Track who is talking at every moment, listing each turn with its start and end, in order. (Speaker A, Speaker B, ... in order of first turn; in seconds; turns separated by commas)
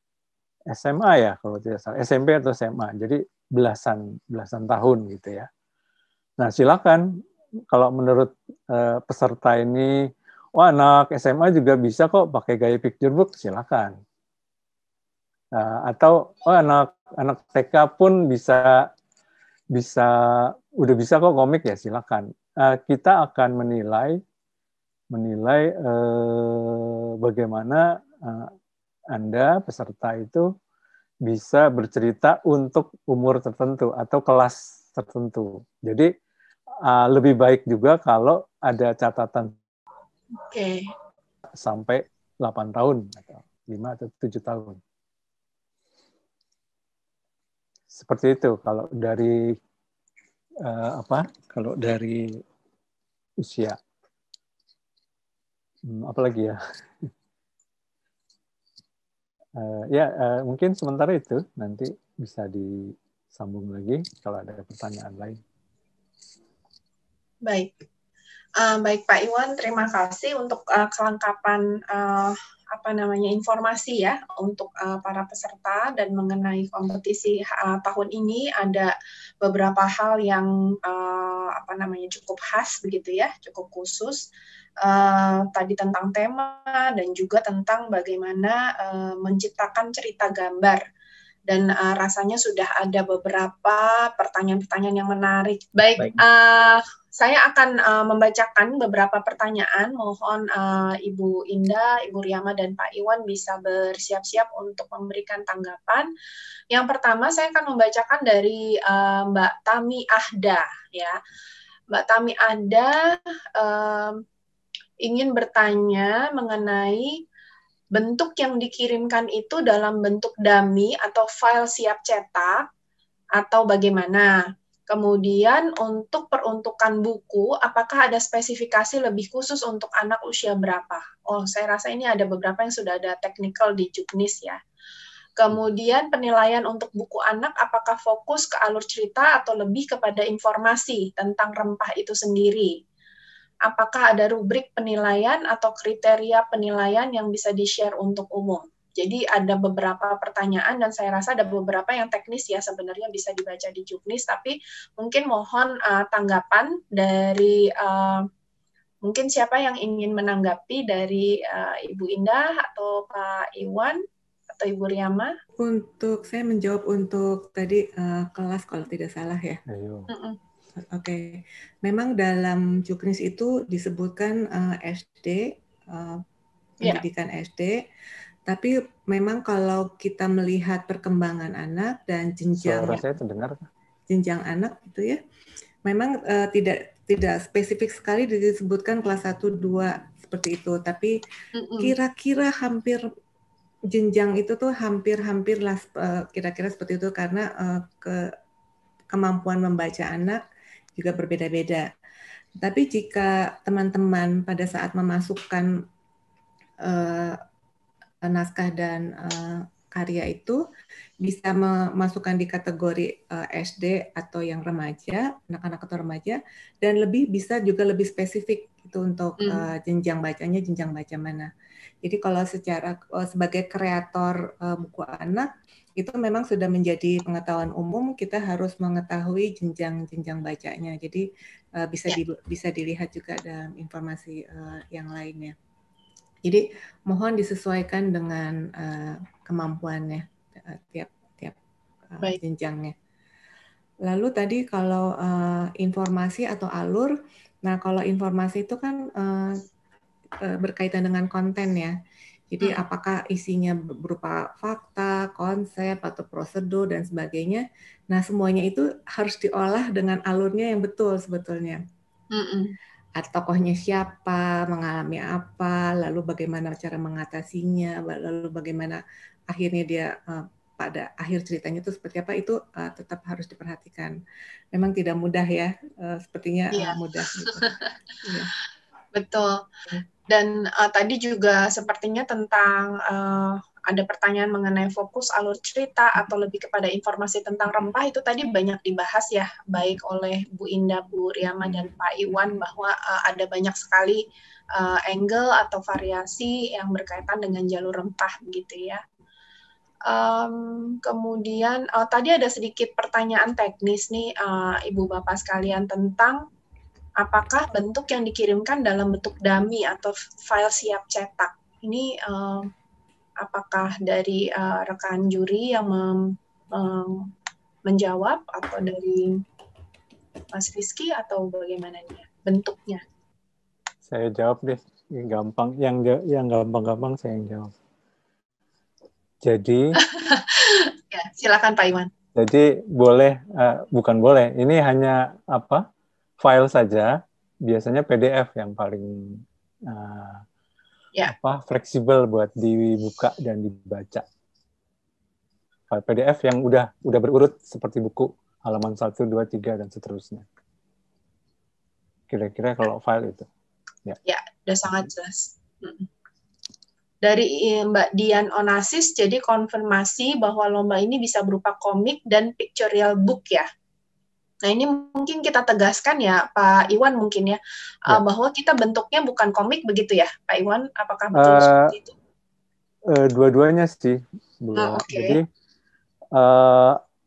Speaker A: 0.7-5.5, Speaker A: 6.4-7.0, Speaker A: 7.7-9.9, Speaker A: 10.6-13.9, Speaker A: 15.5-18.7, Speaker A: 19.7-24.2, Speaker A: 25.1-28.5, Speaker A: 29.1-30.4, Speaker A: 31.2-36.1, Speaker A: 36.9-39.5, Speaker B: 40.4-40.8, Speaker A: 41.6-44.8, Speaker A: 47.9-49.4, Speaker A: 50.6-52.2, Speaker A: 53.4-53.8, Speaker A: 55.9-57.1, Speaker A: 59.6-65.4, Speaker B: 67.5-67.7, Speaker B: 68.6-84.2, Speaker B: 84.8-90.8, Speaker B: 91.5-106.1, Speaker B: 106.7-111.2, Speaker B: 111.9-113.0, Speaker B: 113.5-114.2, Speaker B: 115.0-117.2, Speaker B: 117.9-122.7, Speaker B: 123.4-134.6, Speaker B: 135.4-142.8, Speaker B: 143.7-158.2, Speaker B: 159.0-164.0, Speaker B: 164.5-165.3, Speaker C: 165.6-169.6, Speaker A: 169.7-170.1, Speaker B: 170.1-170.3, Speaker C: 170.8-176.2, Speaker C: 176.8-177.8, Speaker C: 178.4-183.0, Speaker A: 182.6-183.6, Speaker C: 184.1-185.2, Speaker C: 185.8-191.2, Speaker B: 191.6-191.9, Speaker C: 191.8-193.0, Speaker C: 193.9-198.2, Speaker C: 199.1-200.4, Speaker C: 200.9-201.9, Speaker C: 202.6-205.7, Speaker C: 206.8-207.4, Speaker C: 208.2-210.6, Speaker C: 211.2-221.5, Speaker B: 219.4-219.7, Speaker C: 222.0-231.2, Speaker C: 231.8-235.5, Speaker C: 236.4-241.6, Speaker C: 242.1-242.9, Speaker C: 244.1-247.1, Speaker C: 247.6-249.6, Speaker C: 250.4-251.9, Speaker C: 252.5-261.8, Speaker B: 262.3-262.7, Speaker C: 263.2-274.1, Speaker C: 274.7-277.7, Speaker C: 278.2-278.5, Speaker B: 279.1-279.6, Speaker B: 280.3-294.2, Speaker B: 294.7-299.0, Speaker B: 300.1-306.4, Speaker B: 307.2-312.7, Speaker B: 313.4-317.3, Speaker B: 317.9-319.3, Speaker B: 320.5-323.0, Speaker A: 324.1-327.7, Speaker A: 329.4-329.9, Speaker B: 330.0-332.1, Speaker A: 332.4-335.8, Speaker A: 336.4-337.1, Speaker A: 337.7-340.4, Speaker A: 341.3-344.2, Speaker A: 345.9-350.4, Speaker A: 352.3-353.5, Speaker B: 354.2-356.1, Speaker B: 357.2-363.7, Speaker B: 364.6-372.1, Speaker A: 371.3-371.9, Speaker A: 373.1-375.4, Speaker B: 374.7-375.4, Speaker A: 376.3-377.0